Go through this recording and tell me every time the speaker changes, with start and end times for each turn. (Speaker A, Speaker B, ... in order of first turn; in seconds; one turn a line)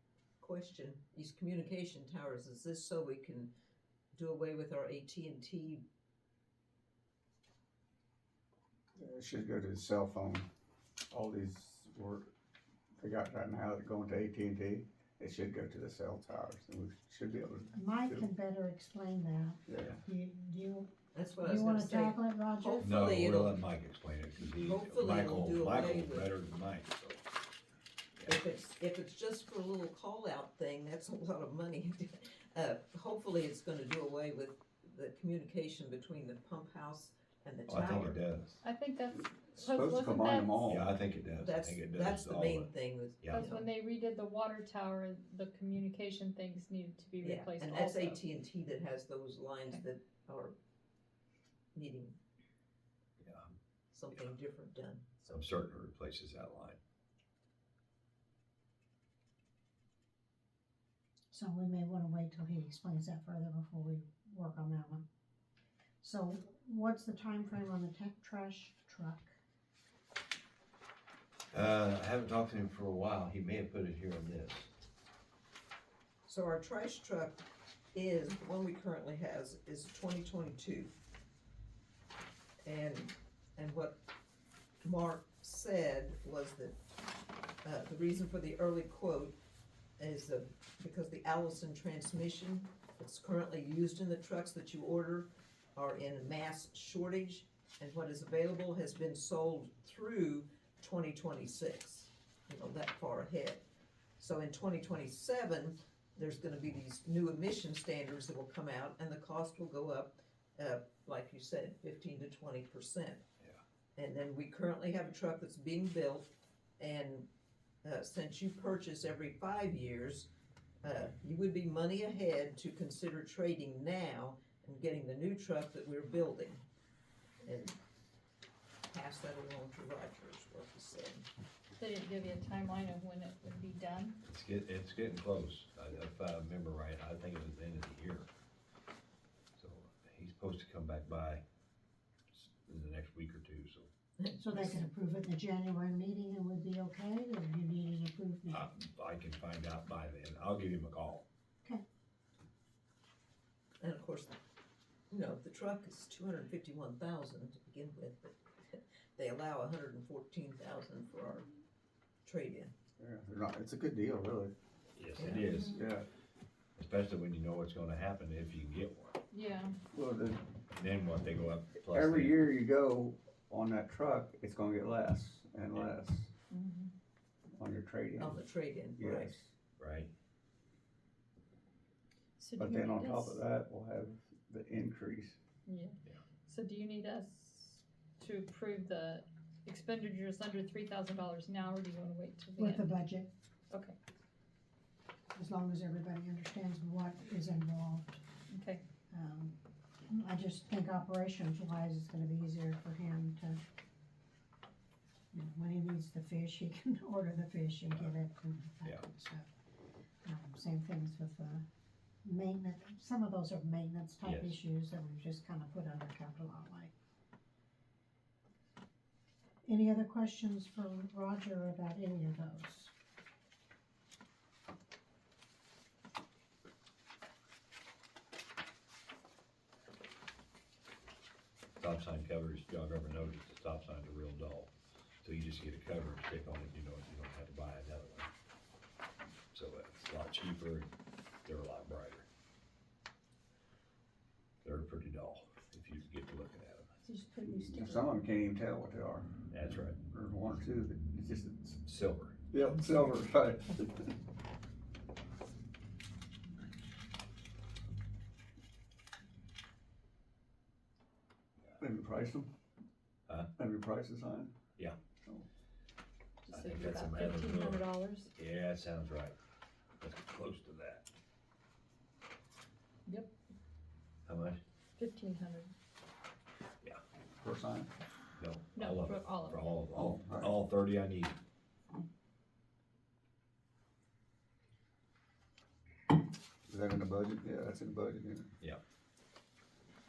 Speaker A: 0.4-3.5
Speaker A: 4.2-5.8
Speaker B: 9.0-10.5
Speaker B: 11.1-12.3
Speaker B: 13.0-18.3
Speaker C: 17.8-22.9
Speaker B: 19.7-20.0
Speaker A: 21.1-23.6
Speaker D: 22.8-27.2
Speaker A: 24.5-26.3
Speaker A: 28.3-38.2
Speaker D: 37.7-38.6
Speaker E: 38.6-40.7
Speaker B: 39.6-40.9
Speaker D: 40.6-43.4
Speaker A: 41.4-43.7
Speaker E: 43.3-48.2
Speaker A: 47.2-50.5
Speaker A: 51.8-52.2
Speaker D: 53.2-53.5
Speaker A: 53.9-55.5
Speaker D: 55.3-56.8
Speaker C: 61.3-65.1
Speaker C: 66.0-69.4
Speaker D: 71.5-74.7
Speaker A: 76.2-77.4
Speaker A: 77.9-80.9
Speaker A: 82.7-84.0
Speaker A: 84.8-86.8
Speaker A: 87.6-89.4
Speaker A: 90.0-103.7
Speaker A: 104.2-113.2
Speaker A: 114.0-117.3
Speaker A: 117.8-120.3
Speaker A: 120.8-126.6
Speaker A: 127.4-127.8
Speaker A: 128.9-131.3
Speaker E: 131.8-134.2
Speaker D: 134.2-138.3
Speaker D: 139.6-141.4
Speaker D: 142.3-143.9
Speaker A: 144.2-144.8
Speaker C: 144.4-148.7
Speaker D: 148.5-151.2
Speaker A: 153.8-154.4
Speaker A: 155.1-161.5
Speaker A: 162.2-162.7
Speaker B: 163.0-164.5
Speaker D: 165.0-165.8
Speaker A: 165.2-165.6
Speaker B: 165.8-166.1
Speaker D: 166.8-169.2
Speaker E: 169.3-169.8
Speaker B: 169.9-170.4
Speaker D: 170.7-172.4
Speaker B: 171.9-176.3
Speaker E: 176.5-176.9
Speaker B: 177.5-178.4
Speaker A: 178.2-179.4
Speaker B: 179.0-179.5
Speaker D: 179.8-180.1
Speaker E: 182.4-183.4
Speaker B: 182.6-185.4
Speaker E: 185.7-192.9
Speaker C: 192.6-193.3
Speaker C: 195.3-198.2
Speaker E: 198.5-198.8
Speaker C: 199.1-199.6
Speaker C: 200.1-203.6
Speaker C: 205.3-209.5
Speaker C: 210.2-211.7
Speaker C: 212.2-216.9
Speaker D: 214.2-214.6
Speaker C: 219.7-222.9
Speaker D: 231.8-238.3
Speaker D: 239.5-240.9
Speaker D: 241.4-242.3
Speaker D: 244.6-246.9
Speaker E: 247.0-248.1
Speaker B: 247.5-249.3
Speaker D: 249.5-250.0
Speaker B: 250.1-251.8
Speaker D: 251.8-252.4
Speaker B: 252.5-254.1
Speaker B: 261.8-262.5
Speaker B: 263.6-264.5
Speaker E: 266.5-268.3
Speaker D: 266.5-269.4
Speaker D: 270.0-271.1
Speaker D: 274.3-274.6
Speaker E: 275.0-275.7
Speaker B: 277.4-277.9
Speaker D: 278.4-281.4
Speaker E: 278.8-279.6
Speaker B: 279.9-280.5
Speaker B: 286.7-288.5